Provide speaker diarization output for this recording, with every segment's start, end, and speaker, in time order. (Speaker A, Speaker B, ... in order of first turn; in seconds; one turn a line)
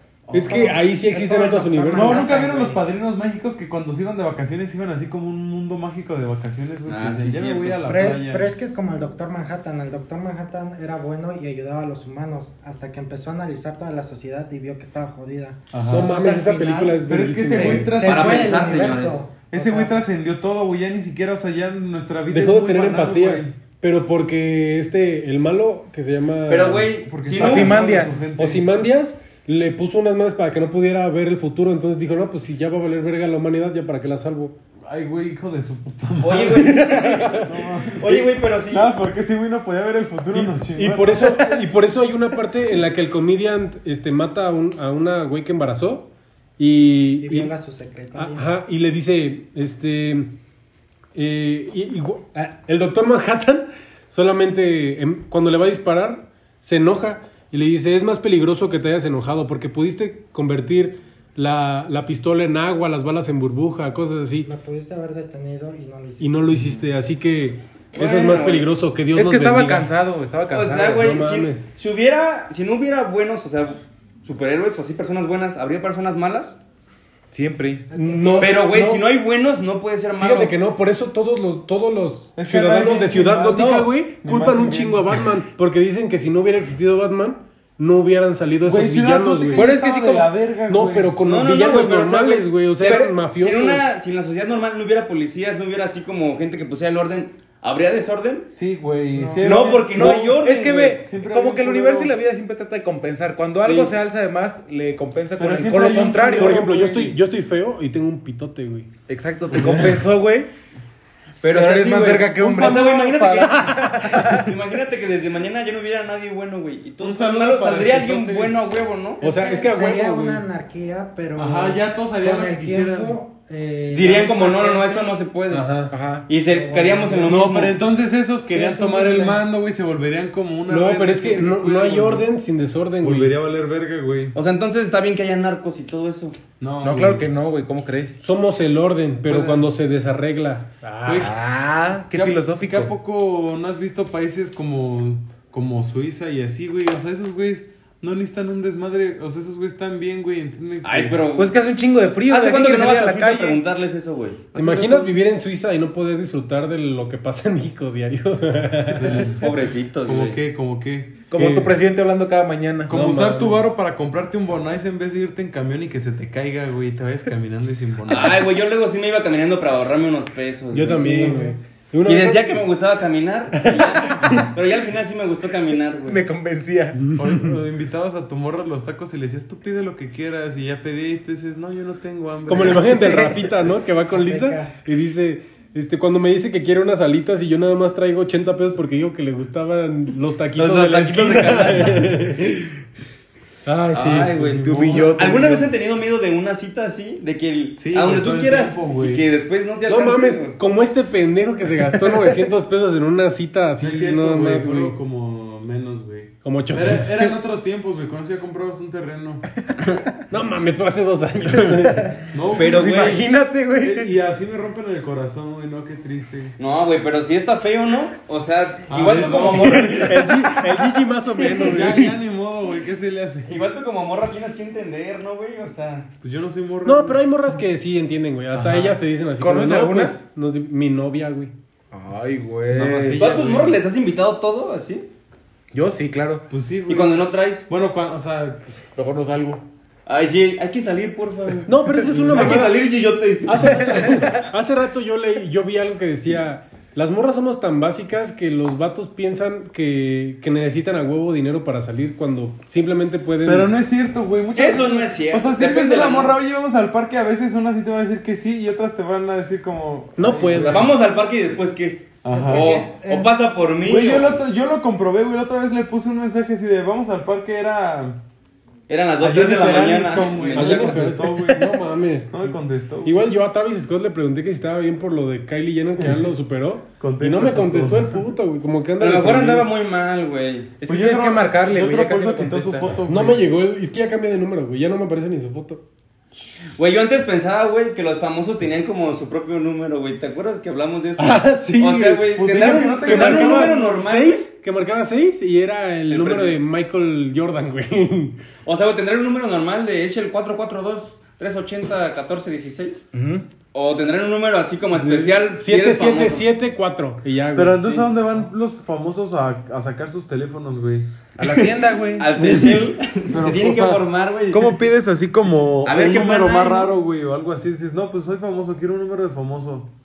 Speaker A: 0.3-0.8
Speaker B: 0.3-2.3
Speaker C: 0.4-2.8
Speaker A: 1.9-8.5
Speaker D: 6.9-7.9
Speaker C: 7.8-20.0
Speaker A: 15.7-16.2
Speaker B: 15.9-17.9
Speaker A: 17.1-18.8
Speaker D: 18.0-19.2
Speaker A: 19.5-23.5
Speaker B: 22.3-26.9
Speaker D: 26.5-27.8
Speaker A: 27.1-28.7
Speaker E: 27.3-28.3
Speaker B: 28.4-34.5
Speaker A: 34.9-41.3
Speaker D: 36.2-38.9
Speaker B: 36.9-37.5
Speaker B: 40.3-47.5
Speaker C: 47.2-48.5
Speaker B: 48.1-50.3
Speaker B: 51.1-64.5
Speaker C: 64.4-66.7
Speaker B: 66.2-69.9
Speaker D: 67.9-68.7
Speaker E: 69.1-71.0
Speaker D: 70.5-76.6
Speaker B: 70.8-71.6
Speaker E: 77.3-78.4
Speaker B: 77.9-79.0
Speaker D: 78.4-80.5
Speaker B: 80.2-89.7
Speaker A: 82.3-85.3
Speaker A: 88.6-91.1
Speaker E: 89.5-90.3
Speaker B: 90.7-93.8
Speaker D: 91.2-98.5
Speaker E: 92.8-93.2
Speaker A: 98.5-100.3
Speaker E: 99.2-106.7
Speaker D: 99.4-101.0
Speaker A: 101.0-102.2
Speaker D: 103.6-103.9
Speaker A: 105.4-107.2
Speaker B: 106.3-108.9
Speaker E: 109.1-110.5
Speaker A: 109.5-109.9
Speaker D: 111.4-119.2
Speaker E: 111.5-114.5
Speaker A: 117.0-118.6
Speaker C: 119.2-125.1
Speaker B: 119.2-120.4
Speaker A: 121.3-123.2
Speaker D: 123.9-125.7
Speaker B: 125.5-125.9
Speaker E: 125.9-126.3
Speaker D: 126.3-127.8
Speaker C: 126.4-127.4
Speaker A: 127.2-132.3
Speaker C: 128.4-129.4
Speaker B: 130.7-133.3
Speaker A: 133.0-134.3
Speaker D: 134.3-136.4
Speaker A: 136.6-137.3
Speaker E: 136.8-138.2
Speaker B: 138.2-141.3
Speaker A: 139.2-139.7
Speaker A: 141.0-141.3
Speaker E: 141.1-142.9
Speaker A: 142.1-151.2
Speaker D: 150.8-151.5
Speaker E: 151.3-153.6
Speaker D: 152.3-154.4
Speaker A: 154.5-155.2
Speaker B: 154.5-159.3
Speaker A: 158.9-161.2
Speaker D: 159.3-160.4
Speaker E: 161.3-162.9
Speaker B: 161.3-161.8
Speaker A: 162.9-168.5
Speaker B: 162.9-163.7
Speaker D: 168.0-171.5
Speaker B: 170.7-172.6
Speaker D: 172.1-176.2
Speaker B: 173.5-174.5
Speaker E: 176.1-177.1
Speaker A: 177.2-183.2
Speaker B: 182.5-192.7
Speaker E: 182.8-183.5
Speaker C: 184.1-184.7
Speaker D: 190.6-192.4
Speaker B: 193.7-194.3
Speaker D: 193.9-200.6
Speaker A: 194.3-195.3
Speaker E: 194.5-195.7
Speaker A: 197.8-199.2
Speaker B: 199.9-205.0
Speaker A: 203.8-209.5
Speaker B: 206.4-207.3
Speaker B: 210.3-212.2
Speaker E: 211.8-214.1
Speaker A: 212.3-213.2
Speaker D: 212.6-213.3
Speaker A: 213.8-216.6
Speaker D: 216.6-220.8
Speaker A: 218.9-220.2
Speaker B: 219.5-222.1
Speaker A: 221.6-223.7
Speaker D: 221.6-221.9
Speaker D: 223.4-226.1
Speaker A: 226.2-227.2
Speaker B: 226.8-231.5
Speaker A: 228.5-229.0
Speaker E: 229.3-230.2
Speaker E: 231.9-233.2
Speaker A: 232.7-233.8
Speaker D: 233.2-235.1
Speaker E: 235.7-236.5
Speaker A: 236.5-238.8
Speaker D: 236.9-237.7
Speaker E: 238.9-239.6
Speaker D: 240.1-241.7
Speaker B: 241.7-242.8
Speaker A: 242.1-242.6
Speaker D: 242.3-244.2
Speaker B: 243.4-253.7
Speaker E: 243.8-244.4
Speaker A: 253.4-260.9
Speaker D: 254.5-256.4
Speaker B: 260.2-260.9
Speaker D: 260.5-264.4
Speaker A: 262.2-262.8
Speaker C: 262.3-263.3
Speaker A: 263.8-268.2
Speaker D: 268.9-271.3
Speaker A: 269.2-273.4
Speaker B: 270.5-279.7
Speaker A: 276.0-276.2
Speaker A: 277.0-278.2
Speaker D: 279.0-280.8
Speaker E: 280.8-282.9
Speaker A: 280.9-283.4
Speaker B: 283.1-285.8
Speaker D: 286.8-294.4
Speaker B: 291.2-298.4
Speaker A: 292.2-293.7
Speaker D: 296.1-296.6
Speaker D: 298.6-303.0
Speaker E: 303.1-303.4
Speaker D: 303.7-306.5
Speaker A: 305.1-305.3
Speaker B: 305.5-308.1
Speaker A: 307.5-311.1
Speaker E: 311.4-312.3
Speaker D: 311.4-314.8
Speaker A: 312.4-319.9
Speaker D: 315.8-316.9